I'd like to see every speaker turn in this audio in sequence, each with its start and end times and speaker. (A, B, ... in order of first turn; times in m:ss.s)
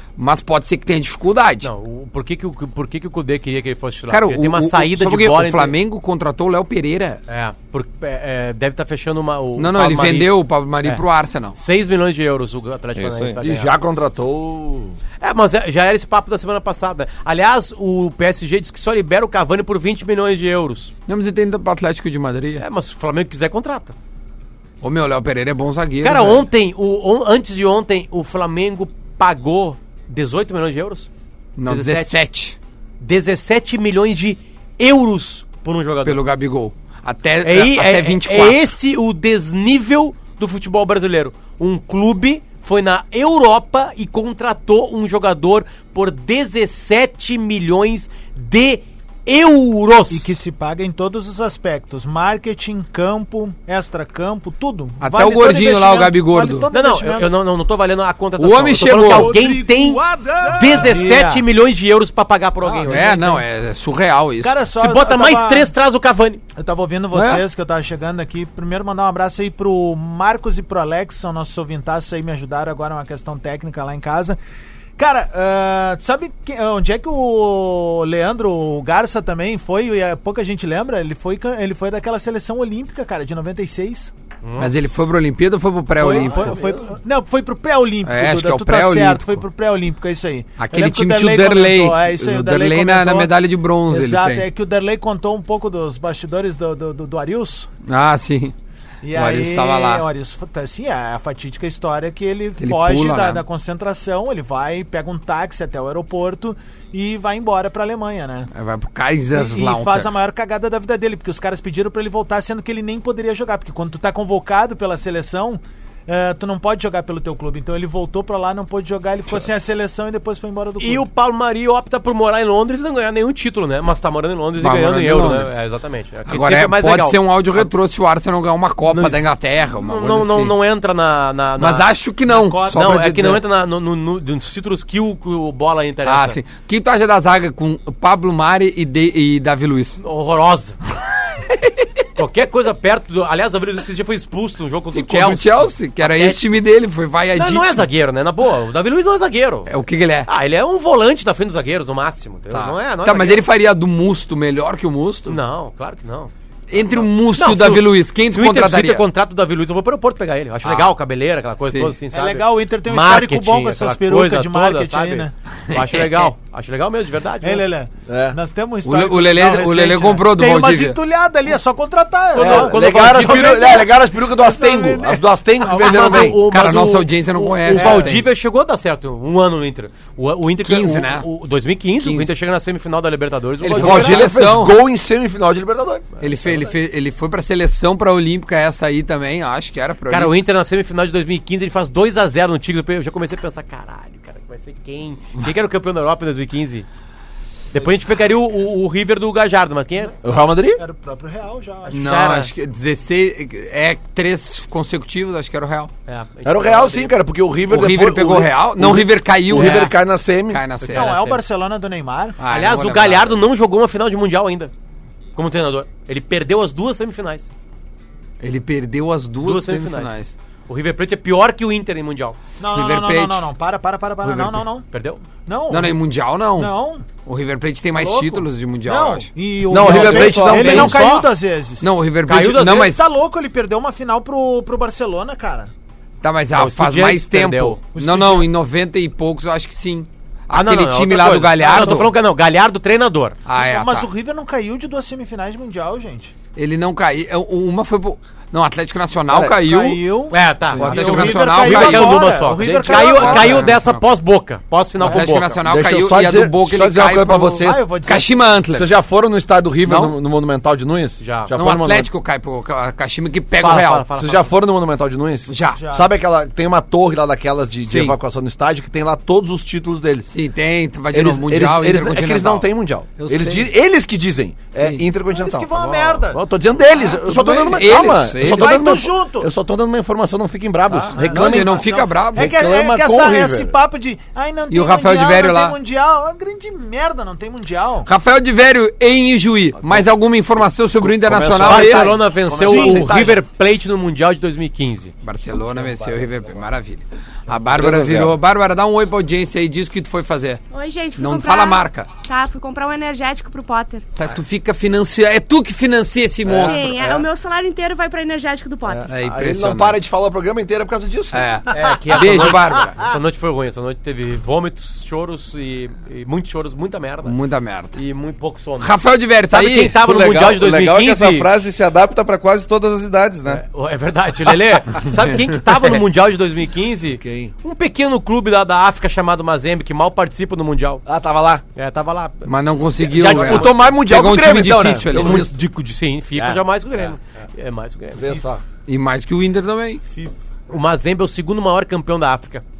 0:00.2-0:01.7 A
0:01.6-0:05.7 B
0:04.1-0:07.2 A
0:07.3-0:10.3 B
0:09.6-0:11.5 A
0:11.6-0:13.7 B
0:13.0-0:13.4 C
0:13.4-0:15.0 D
0:15.2-0:20.9 B
0:21.1-0:22.6 A
0:22.6-0:23.9 B
0:24.8-0:26.5 A
0:26.0-0:31.1 B
0:31.6-0:32.6 A
0:31.7-0:32.2 B
0:33.0-0:36.2 B
0:36.0-0:38.6 A
0:37.4-0:50.4 B
0:50.1-0:57.3 E
0:55.0-0:56.7 A
0:56.7-1:03.4 B
0:58.4-0:59.4 A
0:59.0-1:01.4 E
1:02.6-1:03.4 E
1:02.8-1:04.6 A
1:04.4-1:05.7 E
1:04.8-1:06.4 B
1:06.6-1:14.4 E
1:07.1-1:07.4 A
1:15.0-1:24.1 E
1:24.4-1:24.7 B
1:24.6-1:26.6 A
1:26.0-1:33.3 E
1:28.0-1:29.4 A
1:30.6-1:34.4 A
1:33.9-1:37.7 E
1:37.8-1:38.5 A
1:39.0-1:48.5 E
1:39.1-1:40.0 A
1:42.6-1:43.4 A
1:48.5-1:50.1 A
1:49.3-2:01.1 E
2:00.8-2:07.7 B
2:04.6-2:05.6 A
2:06.3-2:10.5 A
2:08.9-2:11.9 B
2:11.6-2:13.4 A
2:12.3-2:13.0 E
2:12.7-2:16.4 B
2:16.0-2:20.0 A
2:20.0-2:20.8 B
2:21.5-2:21.8 A
2:22.2-2:26.6 B
2:24.9-2:27.8 A
2:27.4-2:29.7 B
2:29.7-2:30.3 A
2:30.3-2:33.4 B
2:32.5-2:35.4 A
2:35.3-2:47.7 B
2:36.7-2:39.0 A
2:40.6-2:40.9 A
2:41.6-2:41.9 A
2:42.1-2:45.3 E
2:45.7-2:46.3 A
2:47.4-2:56.3 E
2:48.1-2:48.4 D
2:48.8-2:51.0 A
2:52.3-2:53.8 B
2:52.3-2:56.4 D
2:55.6-3:04.3 B
2:56.2-2:58.2 A
2:57.7-2:58.2 E
3:00.6-3:01.3 A
3:02.0-3:02.3 A
3:03.6-3:04.8 A
3:03.7-3:06.1 D
3:06.2-3:10.3 A
3:10.1-3:16.8 B
3:17.7-3:20.1 B
3:20.2-3:20.8 D
3:20.8-3:22.2 E
3:21.9-3:22.5 B
3:21.9-3:25.9 A
3:26.1-3:27.1 B
3:26.4-3:30.6 D
3:27.7-3:29.9 A
3:29.5-3:29.9 B
3:30.5-3:31.1 A
3:30.8-3:31.4 B
3:30.9-3:32.4 E
3:32.4-3:33.4 A
3:32.5-3:34.7 B
3:35.3-3:37.5 B
3:38.4-3:40.3 A
3:39.4-3:40.1 B
3:40.7-3:42.4 B
3:42.6-3:44.8 E
3:42.7-3:43.4 A
3:44.2-3:44.6 A
3:44.9-3:45.2 B
3:45.4-3:46.0 E
3:45.7-3:49.3 A
3:46.5-3:47.0 E
3:47.9-3:51.9 E
3:49.7-3:51.0 D
3:49.8-3:50.9 C
3:50.2-3:51.3 B
3:51.8-3:53.0 A
3:52.3-3:52.9 B
3:52.8-3:55.7 E
3:56.2-4:02.1 A
3:56.5-3:57.8 B
3:57.9-3:58.5 E
4:00.5-4:03.4 B
4:03.5-4:04.1 A
4:03.5-4:06.3 E
4:06.6-4:10.0 A
4:09.3-4:09.6 D
4:09.6-4:13.7 E
4:10.3-4:15.6 B
4:10.7-4:12.3 A
4:12.6-4:13.4 D
4:12.8-4:14.0 A
4:15.0-4:19.0 A
4:15.6-4:17.8 D
4:17.6-4:18.4 E
4:18.7-4:22.1 D
4:19.8-4:20.2 A
4:21.2-4:21.5 B
4:21.5-4:24.0 A
4:23.5-4:24.5 B
4:24.2-4:30.3 D
4:25.5-4:25.8 A
4:25.8-4:26.1 E
4:27.9-4:28.2 A
4:30.3-4:33.7 A
4:31.1-4:35.7 D
4:34.8-4:35.0 A
4:35.3-4:36.4 E
4:36.3-4:43.7 D
4:37.2-4:38.8 A
4:37.7-4:39.5 E
4:40.9-4:42.5 A
4:41.1-4:48.1 E
4:44.7-4:45.8 A
4:48.0-4:52.1 A
4:49.8-4:50.1 D
4:51.0-4:53.4 D
4:51.6-4:55.1 B
4:52.6-4:53.1 E
4:55.2-5:00.6 A
4:57.8-4:58.3 C
4:57.9-4:58.3 D
5:00.7-5:04.0 F
5:01.2-5:02.1 A
5:04.2-5:06.9 A
5:06.4-5:07.3 D
5:06.6-5:09.1 F
5:08.8-5:11.8 D
5:09.1-5:10.0 A
5:11.3-5:13.0 A
5:11.7-5:17.4 B
5:17.2-5:18.0 A
5:18.0-5:18.9 B
5:18.8-5:20.0 A
5:19.5-5:21.5 B
5:20.0-5:23.6 C
5:23.5-5:31.0 B
5:27.2-5:27.5 D
5:31.0-5:31.6 D
5:31.8-5:33.9 B
5:32.4-5:35.4 A
5:33.1-5:35.6 D
5:35.1-5:38.4 B
5:36.4-5:36.6 D
5:38.2-5:38.6 D
5:38.8-5:40.0 A
5:40.7-5:42.6 B